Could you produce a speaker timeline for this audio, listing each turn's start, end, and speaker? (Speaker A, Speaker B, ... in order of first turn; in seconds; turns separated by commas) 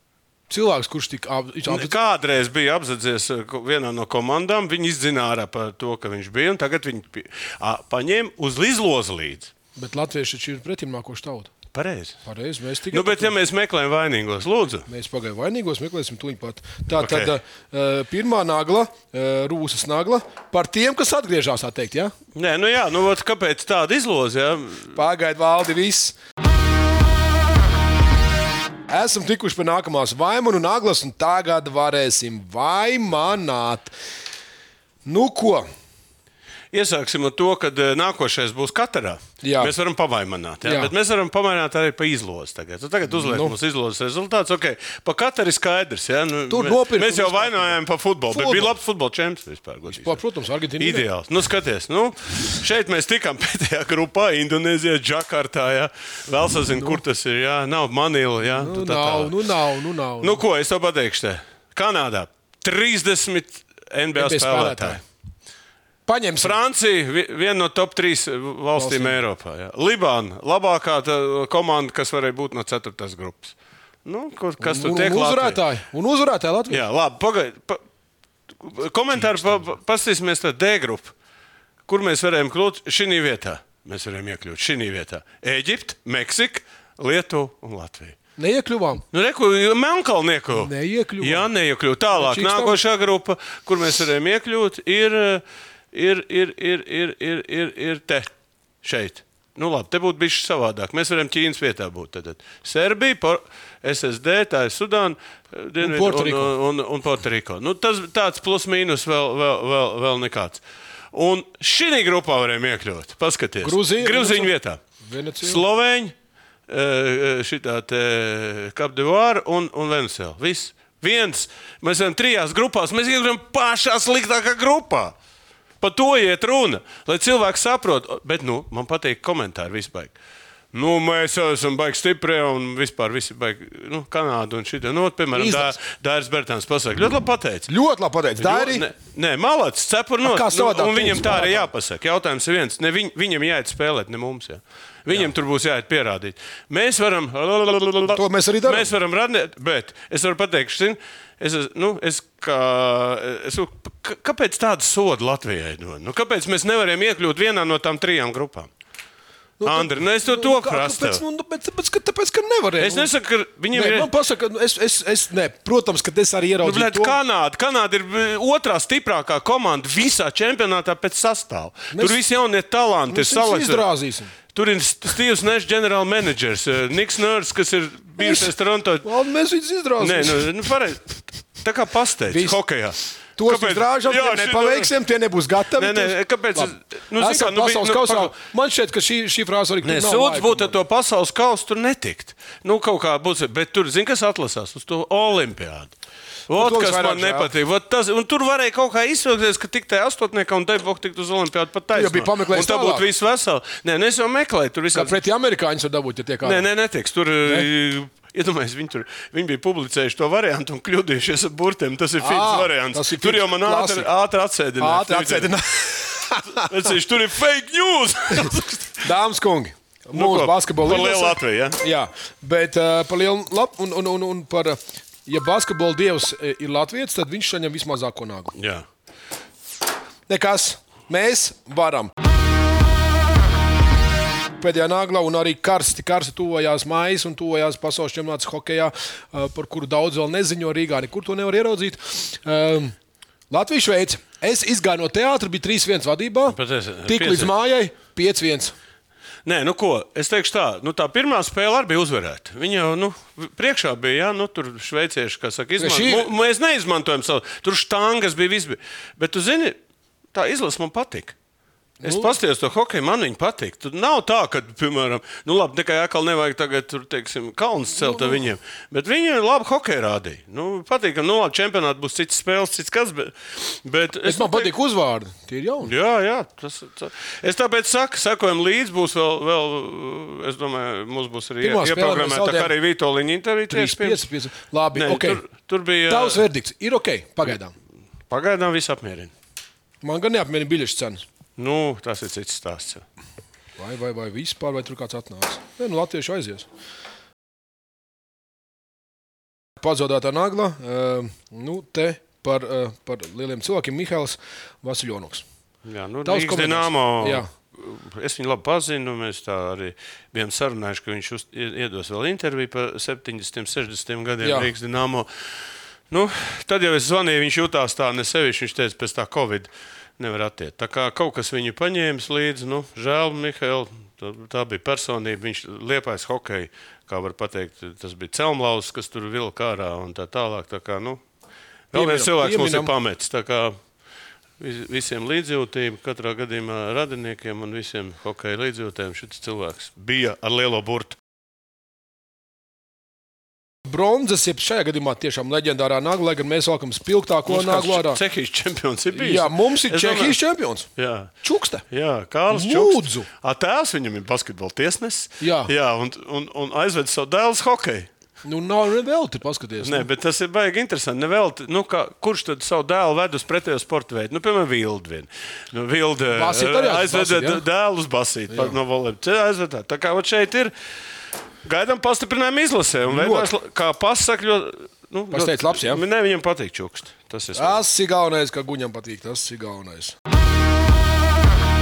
Speaker A: 0.5-2.0, Speaker B: 1.7-9.5, Speaker A: 9.8-11.5, Speaker B: 11.7-12.2, Speaker A: 12.2-13.3, Speaker B: 12.9-14.9, Speaker A: 14.9-22.1, Speaker B: 17.0-17.3, Speaker B: 22.4-25.0, Speaker A: 24.9-26.2, Speaker A: 28.9-33.9, Speaker A: 35.1-35.7, Speaker B: 36.7-50.2, Speaker A: 39.4-39.7, Speaker A: 40.6-40.9, Speaker A: 43.1-43.5, Speaker A: 46.5-47.8, Speaker A: 48.3-48.7, Speaker A: 49.9-51.1, Speaker B: 50.8-59.4, Speaker A: 56.8-57.0, Speaker A: 58.5-60.4, Speaker B: 60.2-65.0, Speaker A: 64.2-65.0, Speaker A: 66.1-66.5, Speaker B: 66.4-73.5, Speaker A: 68.8-69.2, Speaker B: 74.0-75.6, Speaker A: 74.6-76.8, Speaker B: 76.7-77.8, Speaker B: 78.6-81.1, Speaker B: 81.9-88.2, Speaker A: 88.4-89.0, Speaker B: 89.1-98.3, Speaker A: 90.5-91.5, Speaker A: 92.1-92.8, Speaker B: 98.8-110.6, Speaker A: 105.8-106.5, Speaker B: 111.1-114.8, Speaker A: 113.6-115.6, Speaker B: 115.4-116.1, Speaker B: 116.7-125.2, Speaker B: 125.8-130.2, Speaker B: 130.7-137.7, Speaker A: 135.3-135.8, Speaker A: 137.7-138.9, Speaker B: 138.4-158.7, Speaker A: 140.2-141.7, Speaker A: 148.1-148.9, Speaker A: 159.6-163.1, Speaker B: 159.7-161.2, Speaker B: 162.8-164.1, Speaker A: 163.7-167.2, Speaker B: 166.6-173.9, Speaker A: 171.9-172.2, Speaker A: 173.1-174.3, Speaker B: 174.5-179.1, Speaker A: 178.2-178.5, Speaker A: 179.0-180.5, Speaker B: 180.0-184.9, Speaker A: 182.3-182.6, Speaker A: 183.4-190.7, Speaker B: 185.8-188.3, Speaker B: 189.8-195.9, Speaker B: 196.5-205.2, Speaker A: 196.5-197.5, Speaker A: 201.9-203.1, Speaker A: 204.9-206.7, Speaker B: 206.4-215.5, Speaker A: 212.2-214.1, Speaker A: 214.8-216.9, Speaker B: 216.6-219.1, Speaker A: 219.0-228.6, Speaker B: 220.1-221.8, Speaker B: 228.6-228.9, Speaker A: 230.3-232.1, Speaker A: 234.6-242.9, Speaker A: 243.5-248.8, Speaker B: 246.5-247.5, Speaker B: 249.4-259.8, Speaker A: 255.8-256.3, Speaker B: 260.3-261.4, Speaker A: 262.0-262.3, Speaker B: 262.0-274.7, Speaker A: 268.0-268.4, Speaker A: 274.2-275.9, Speaker B: 275.8-284.3, Speaker A: 281.6-282.7, Speaker A: 283.7-285.4, Speaker B: 284.9-286.4, Speaker A: 286.1-287.7, Speaker B: 288.3-289.3, Speaker A: 290.0-291.2, Speaker B: 291.6-293.0, Speaker A: 293.8-296.7, Speaker A: 299.8-305.4, Speaker B: 305.9-315.3, Speaker A: 306.2-307.5, Speaker A: 314.4-314.7, Speaker B: 316.1-331.2, Speaker B: 331.9-333.8, Speaker A: 331.9-332.9, Speaker B: 334.6-341.2, Speaker A: 343.9-348.2, Speaker B: 347.5-350.4, Speaker A: 349.1-350.9, Speaker B: 351.0-351.3, Speaker A: 351.4-351.8, Speaker B: 351.9-358.1, Speaker A: 352.5-353.3, Speaker A: 355.4-355.7, Speaker A: 358.4-360.1, Speaker B: 359.8-370.7, Speaker A: 366.3-367.6, Speaker A: 368.5-368.8, Speaker B: 371.6-377.8, Speaker A: 373.1-373.5, Speaker A: 375.3-376.0, Speaker A: 377.6-380.1